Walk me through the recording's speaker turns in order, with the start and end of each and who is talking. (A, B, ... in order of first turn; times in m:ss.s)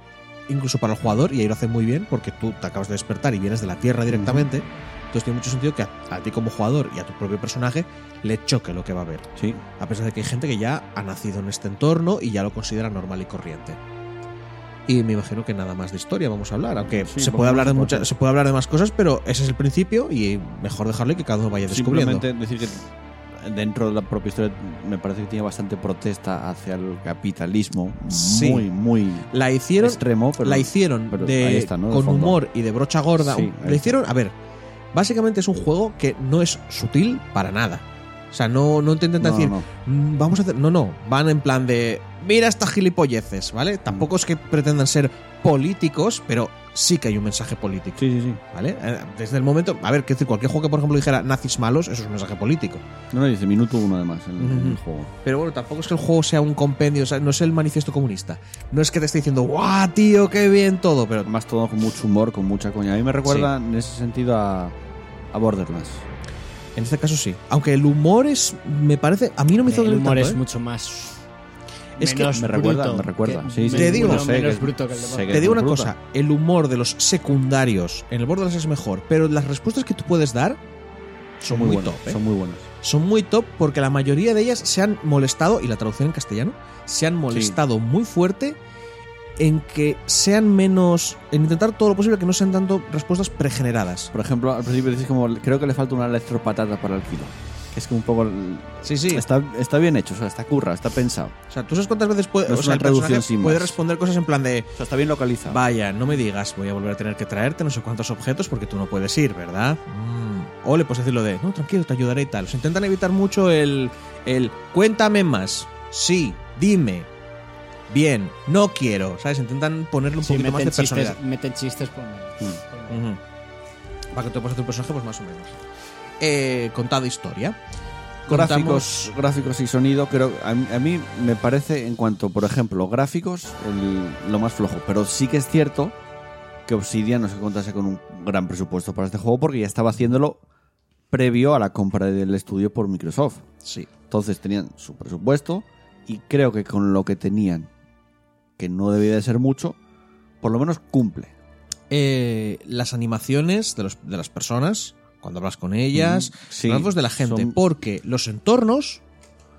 0:00.5-0:09.3 A
0:04.1-0:04.5 B
0:09.4-0:09.6 B
0:09.8-0:13.8 A
0:14.9-0:22.2 A
0:16.9-0:18.1 B
0:21.7-0:32.4 B
0:28.1-0:28.6 A
0:29.3-0:34.3 A
0:33.2-0:34.0 B
0:34.9-0:52.8 A
0:39.2-0:39.6 B
0:48.0-0:48.4 B
0:53.1-0:55.1 B
0:54.4-1:01.3 A
1:01.2-1:04.8 B
1:03.2-1:03.5 A
1:05.3-1:06.0 B
1:06.8-1:10.4 A
1:09.6-1:11.2 C
1:12.0-1:12.3 A
1:12.0-1:15.4 C
1:12.3-1:15.9 B
1:13.7-1:14.3 A
1:15.3-1:20.6 A
1:21.4-1:22.2 A
1:21.5-1:22.7 B
1:22.8-1:28.6 A
1:27.3-1:27.6 B
1:29.4-1:34.1 A
1:34.1-1:41.3 B
1:38.8-1:39.2 A
1:41.5-1:44.7 A
1:42.4-1:43.8 B
1:44.7-1:45.6 B
1:45.5-1:57.1 A
1:57.9-2:01.2 A
2:00.2-2:03.0 C
2:02.9-2:03.2 A
2:04.1-2:05.6 A
2:06.2-2:07.6 A
2:08.2-2:09.1 A
2:08.3-2:16.0 B
2:16.6-2:20.4 B
2:21.1-2:23.4 B
2:23.6-2:23.9 A
2:24.1-2:27.7 B
2:28.6-2:29.8 B
2:30.4-2:31.3 B
2:31.9-2:39.0 A
2:35.9-2:37.6 B